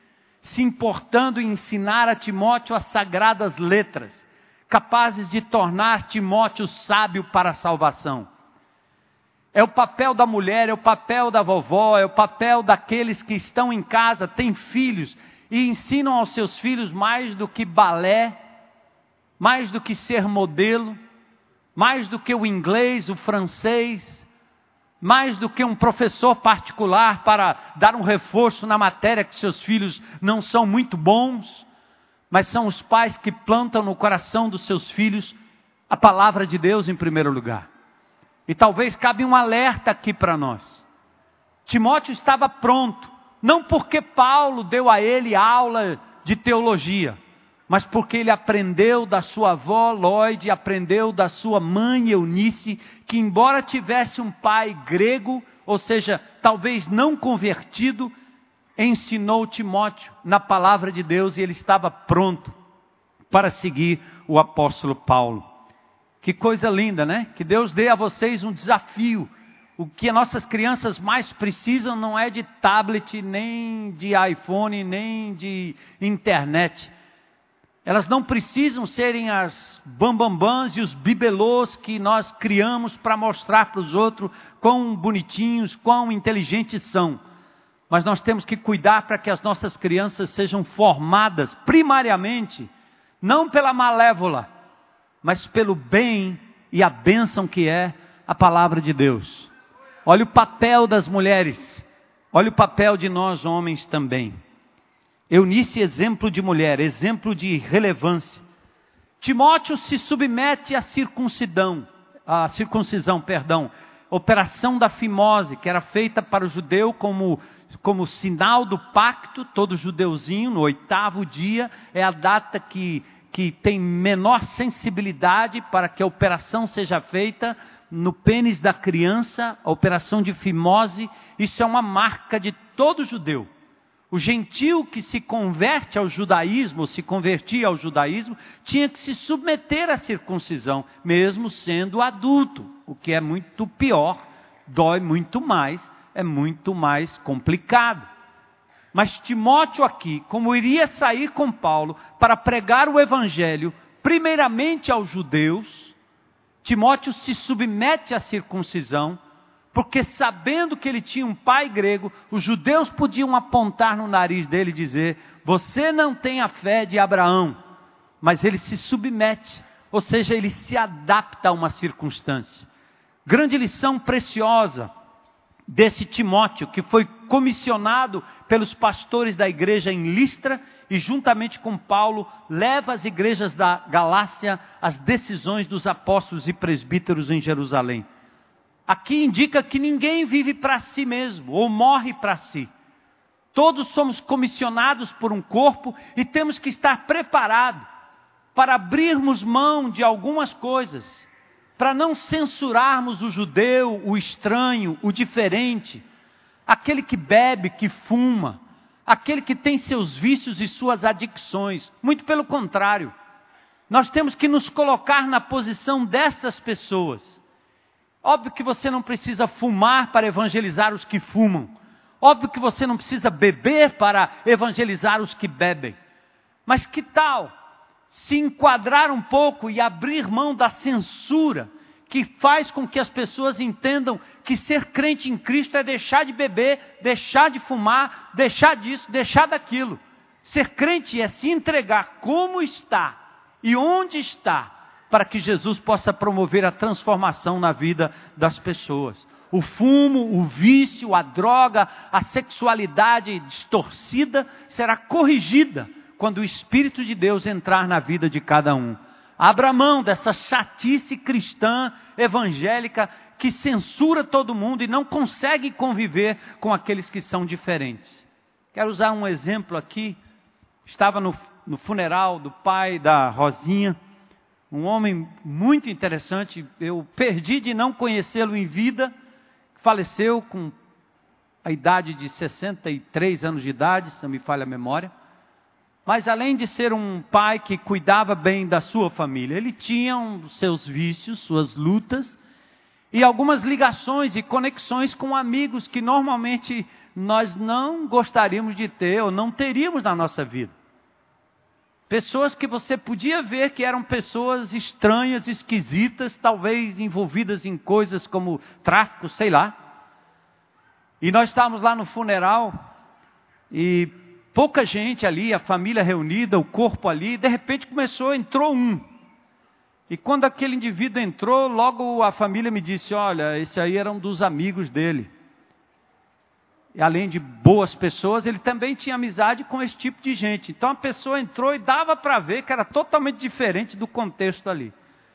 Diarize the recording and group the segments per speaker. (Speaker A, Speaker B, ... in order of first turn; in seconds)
Speaker A: 0.4-8.3, 9.5-18.4, 19.4-21.0, 21.8-24.3, 25.0-31.7, 32.3-35.4, 35.9-37.7, 38.5-40.8, 41.7-47.2, 47.7-58.1, 58.8-62.5, 63.3-65.4, 66.2-76.9, 77.8-87.2, 87.9-92.7, 93.2-94.5, 95.2-99.5, 100.1-104.3, 105.3-108.4, 109.2-133.5, 134.1-148.1, 148.9-155.9, 156.6-159.2, 159.7-167.6, 168.2-172.7, 173.3-174.9, 175.7-188.1, 188.9-192.7, 193.5-197.8, 198.6-201.3, 201.8-206.0, 206.7-213.1, 213.9-217.4, 218.2-226.0, 226.7-227.5, 228.1-270.2, 270.9-274.0, 274.7-279.1, 279.8-280.7, 281.6-285.1, 286.1-292.4, 293.1-300.7, 302.1-309.7, 311.2-312.7, 313.7-319.0, 320.1-325.3, 326.9-334.9